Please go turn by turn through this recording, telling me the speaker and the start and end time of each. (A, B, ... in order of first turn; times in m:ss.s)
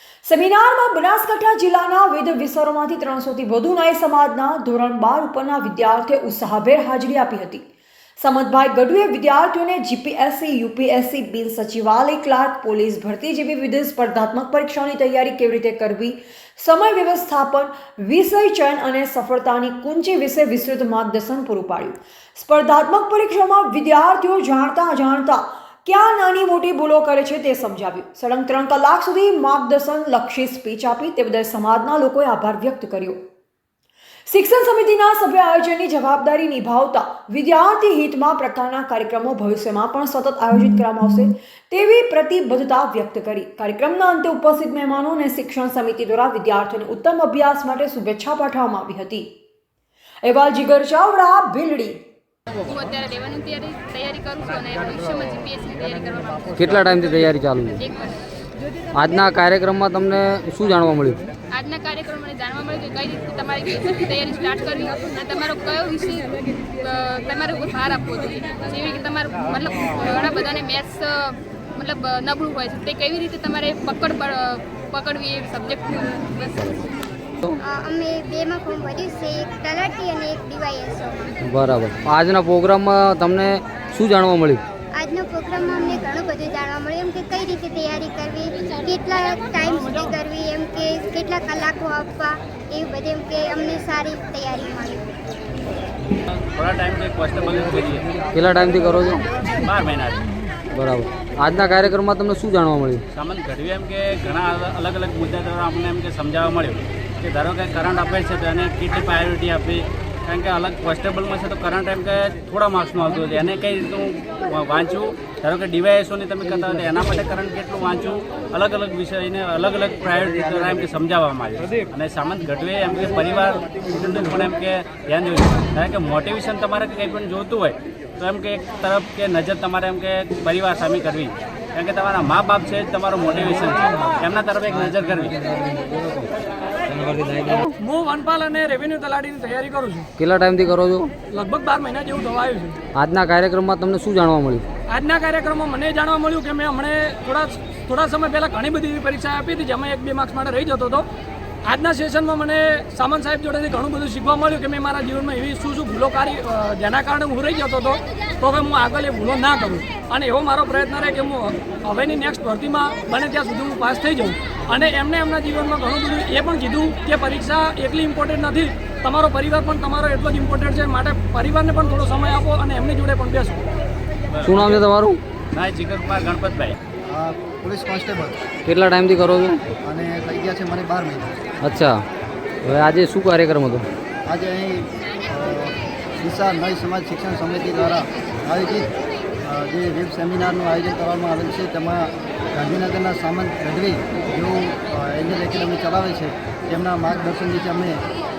0:00.2-0:07.6 A
0:08.2-0:33.2 A
0:34.3-0:49.3 A
0:50.2-0:52.0 A
0:52.6-0:56.7 B
0:56.6-0:57.8 C
0:57.8-0:58.1 B
0:58.9-1:01.2 C
1:01.5-1:16.8 B
1:17.6-1:21.3 D
1:21.4-1:24.6 C
1:24.9-1:35.1 D
1:36.3-1:38.0 E
1:38.3-1:39.2 C
1:39.6-1:40.2 E
1:40.7-1:43.0 C
1:43.1-2:15.8 E
2:16.9-2:17.6 E
2:17.7-2:20.1 F
2:20.2-2:21.1 C
2:21.3-2:22.8 F
2:23.0-2:24.6 C
2:24.9-2:31.0 F
2:31.6-2:53.6 F
2:54.3-2:54.7 E
2:54.4-2:55.2 C
2:55.5-2:56.8 E
2:57.0-2:58.4 G
2:58.6-2:59.6 C
2:59.8-3:01.3 G
3:01.6-3:02.0 C
3:02.6-3:03.8 C
3:04.2-3:08.8 G
3:09.4-3:18.0 G